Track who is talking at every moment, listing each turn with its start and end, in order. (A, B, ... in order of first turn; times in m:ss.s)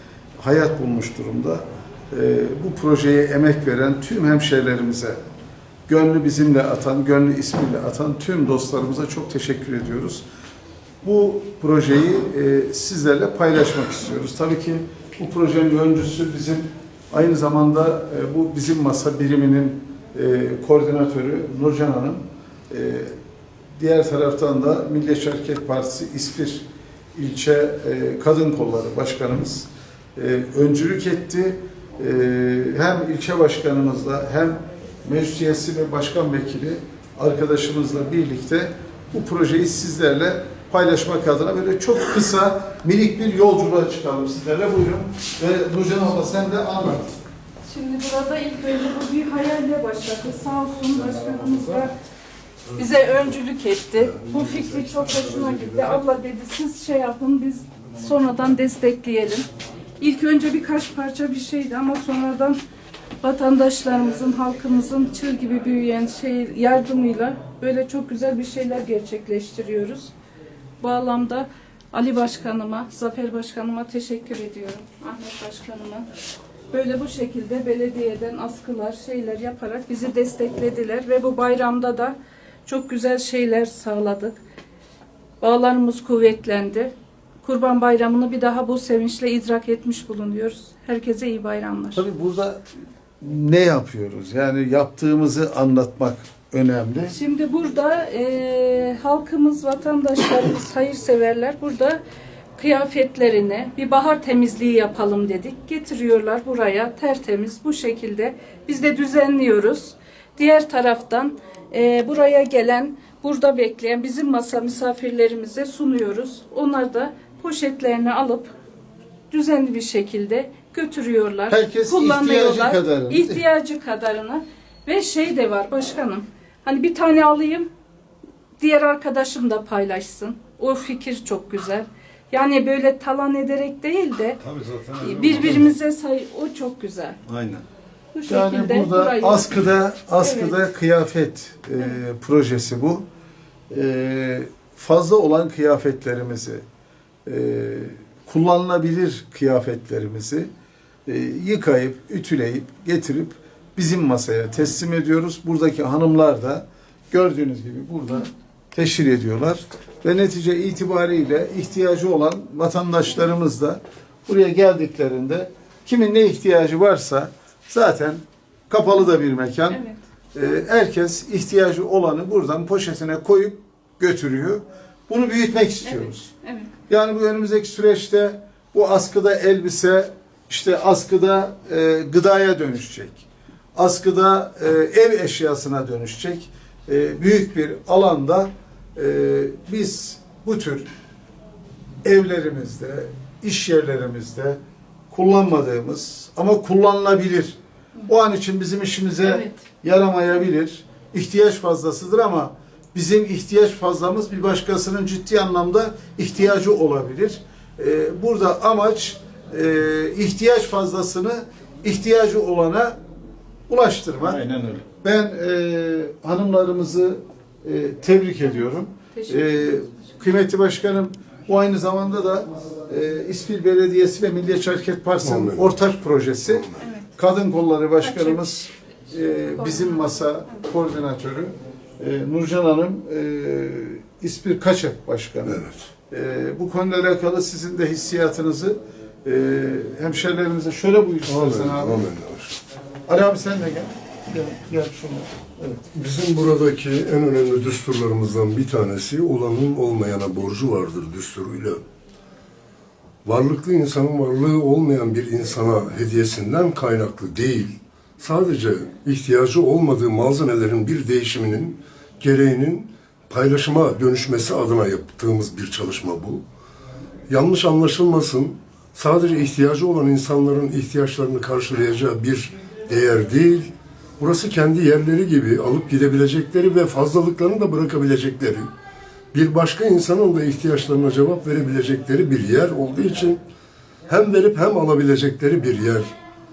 0:00.4-0:05.2 A
0:05.9-0:10.2 A
0:11.0-0:23.1 A
0:23.8-0:47.1 A
0:47.7-0:51.9 B
0:52.8-0:59.5 B
0:55.4-0:55.6 C
1:00.0-1:02.6 B
1:03.2-1:10.1 B
1:10.8-1:16.1 B
1:16.7-1:22.2 B
1:22.7-1:24.3 B
1:25.4-1:26.9 B
1:27.4-1:32.0 B
1:32.0-1:32.6 A
1:33.2-1:37.2 A
1:37.1-1:42.0 B
1:42.6-1:58.5 B
1:59.3-2:07.7 B
2:01.5-2:03.4 A
2:08.6-2:14.4 B
2:14.4-2:15.7 D
2:15.0-2:17.2 B
2:17.3-2:17.6 D
2:18.1-2:19.6 B
2:18.3-2:23.0 A
2:20.2-2:20.6 B
2:23.7-2:26.6 A
2:27.2-2:30.5 A
2:31.1-2:49.8 A
2:49.7-2:50.0 B
2:50.3-2:56.3 A
2:55.8-2:56.7 B
2:56.9-3:10.9 A
3:12.0-3:14.6 A
3:15.1-3:17.6 A
3:18.1-3:33.0 A
3:19.2-3:19.6 B
3:33.7-3:34.4 A
3:34.2-3:34.8 D
3:35.0-4:02.1 A
3:39.1-3:39.9 B
3:45.2-3:45.7 C
3:46.8-3:47.1 B
3:48.0-3:48.4 B
3:49.6-3:50.0 B
3:55.5-3:55.9 C
4:01.3-4:02.6 C
4:03.1-4:05.8 A
4:05.9-4:11.8 C
4:13.2-4:26.4 C
4:27.3-4:38.7 C
4:39.3-4:43.4 C
4:44.1-4:46.1 C